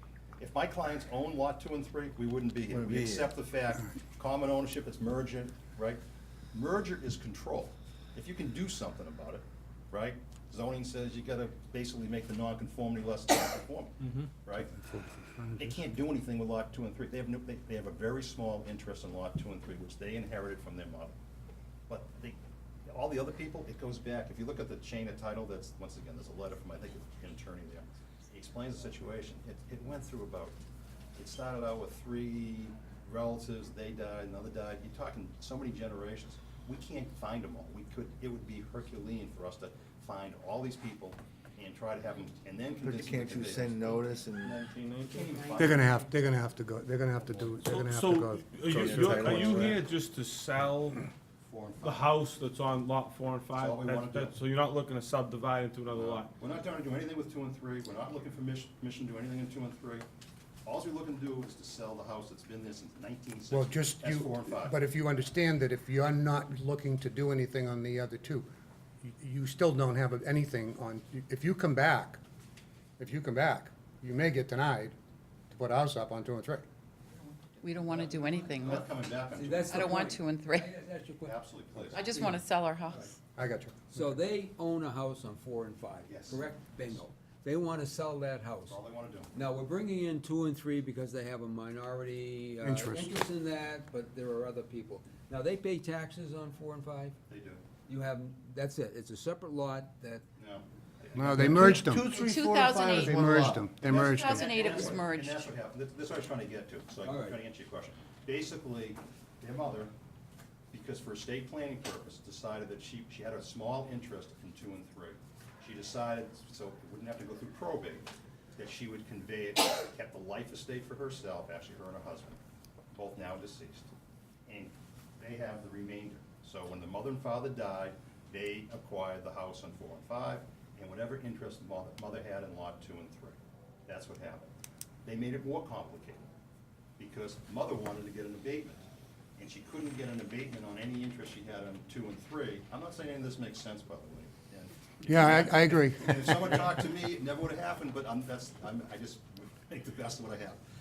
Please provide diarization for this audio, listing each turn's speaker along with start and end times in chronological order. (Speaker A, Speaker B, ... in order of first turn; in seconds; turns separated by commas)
Speaker A: 0.4-6.0, Speaker B: 2.7-3.3, Speaker A: 6.5-14.8, Speaker C: 14.7-15.8, Speaker A: 15.6-21.2, Speaker A: 21.9-30.6, Speaker A: 31.2-43.8, Speaker B: 42.8-44.6, Speaker D: 44.4-45.4, Speaker A: 45.1-45.9, Speaker C: 45.6-49.6, Speaker A: 47.2-47.6, Speaker D: 47.6-51.1, Speaker B: 48.8-49.8, Speaker A: 51.4-52.2, Speaker D: 51.8-56.3, Speaker A: 53.6-54.4, Speaker A: 55.9-60.0, Speaker A: 60.6-64.8, Speaker C: 63.5-68.5, Speaker C: 69.0-72.2, Speaker C: 73.0-75.0, Speaker C: 75.5-76.7, Speaker E: 77.6-78.9, Speaker A: 77.9-80.0, Speaker F: 79.3-82.5, Speaker E: 79.7-80.7, Speaker A: 81.2-82.1, Speaker E: 81.9-83.1, Speaker C: 83.4-84.0, Speaker F: 83.9-88.8, Speaker A: 86.1-86.9, Speaker A: 88.7-89.3, Speaker F: 89.3-97.2, Speaker C: 92.6-93.2, Speaker A: 97.3-97.6, Speaker F: 97.9-100.2, Speaker A: 100.4-101.8, Speaker C: 101.2-102.1, Speaker B: 101.3-103.7, Speaker E: 102.1-103.2, Speaker C: 103.0-104.6, Speaker A: 103.8-109.9, Speaker E: 103.8-105.5, Speaker F: 107.0-107.4, Speaker A: 110.7-122.4, Speaker A: 122.9-123.9, Speaker A: 124.5-134.5, Speaker A: 135.1-136.3, Speaker A: 137.0-138.8, Speaker A: 139.4-150.6, Speaker C: 145.1-146.8